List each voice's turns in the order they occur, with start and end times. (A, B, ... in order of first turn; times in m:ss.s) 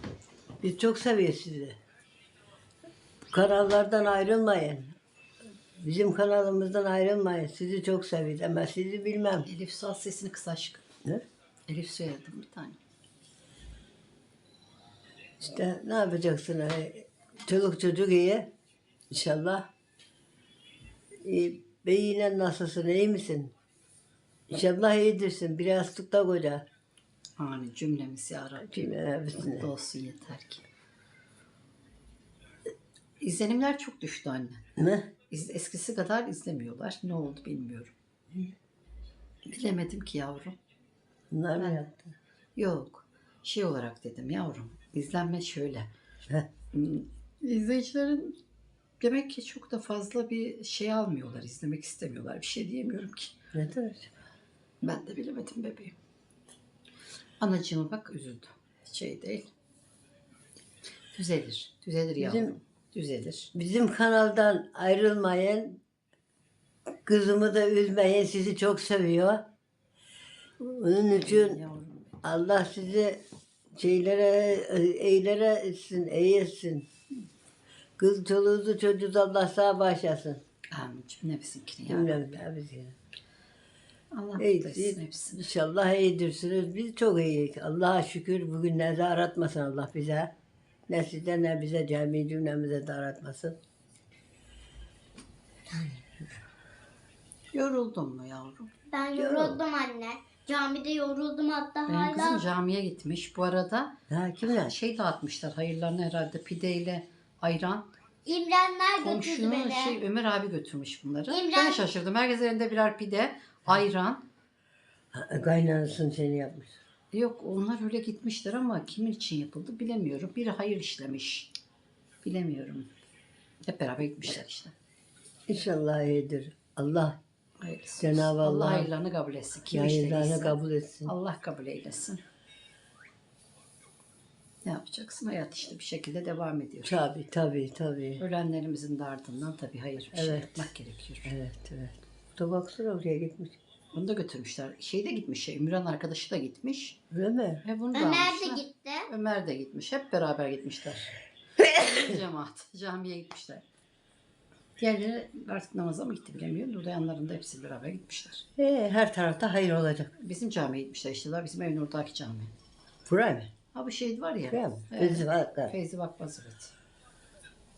0:00.6-0:01.8 A
0:03.3-0:05.0 A
0:05.8-0:09.5 A
0:09.5-0:10.8 B
0:11.7-0:12.8 B
0:15.4-0:18.5 A
0:19.1-0:19.7 A
0:21.2-0:23.5 A
0:24.5-0:26.6 A
0:27.4-0:30.6 B
0:28.7-0:29.7 A
0:33.2-0:34.6 B
0:34.8-0:35.1 A
0:35.3-0:37.9 B
0:39.4-0:40.6 B
0:41.3-0:42.1 A
0:41.6-0:41.8 B
0:42.6-0:45.9 B
0:46.7-0:48.4 B
0:49.0-0:53.4 B
0:53.5-0:54.1 A
0:54.8-0:56.0 B
0:57.4-0:59.5 B
1:01.1-1:03.5 B
1:02.2-1:02.6 A
1:03.5-1:05.8 A
1:07.0-1:09.4 A
1:10.6-1:11.6 A
1:11.1-1:12.1 B
1:12.2-1:13.2 A
1:13.8-1:16.9 A
1:18.0-1:20.4 A
1:20.7-1:22.4 B
1:21.9-1:22.9 A
1:24.1-1:25.4 B
1:24.4-1:30.3 A
1:30.9-1:33.6 A
1:37.5-1:38.7 B
1:38.9-1:42.4 C
1:39.2-1:39.6 A
1:41.9-1:47.9 B
1:44.1-1:44.8 A
1:48.3-1:50.0 C
1:49.0-1:54.2 B
1:51.3-1:51.8 C
1:55.1-1:56.8 A
1:57.1-2:01.6 B
2:02.2-2:02.9 B
2:03.6-2:04.7 B
2:05.5-2:07.2 A
2:07.6-2:12.2 B
2:08.0-2:08.9 A
2:09.7-2:11.1 A
2:14.6-2:17.0 B
2:16.8-2:18.2 A
2:18.2-2:21.3 B
2:20.1-2:20.7 A
2:21.3-2:23.6 A
2:23.9-2:27.0 B
2:27.1-2:27.6 A
2:27.6-2:33.6 B
2:27.9-2:29.1 C
2:34.8-2:38.4 B
2:38.6-2:40.1 A
2:40.2-2:42.5 B
2:43.1-2:43.5 A
2:43.7-2:46.7 B
2:44.5-2:45.8 A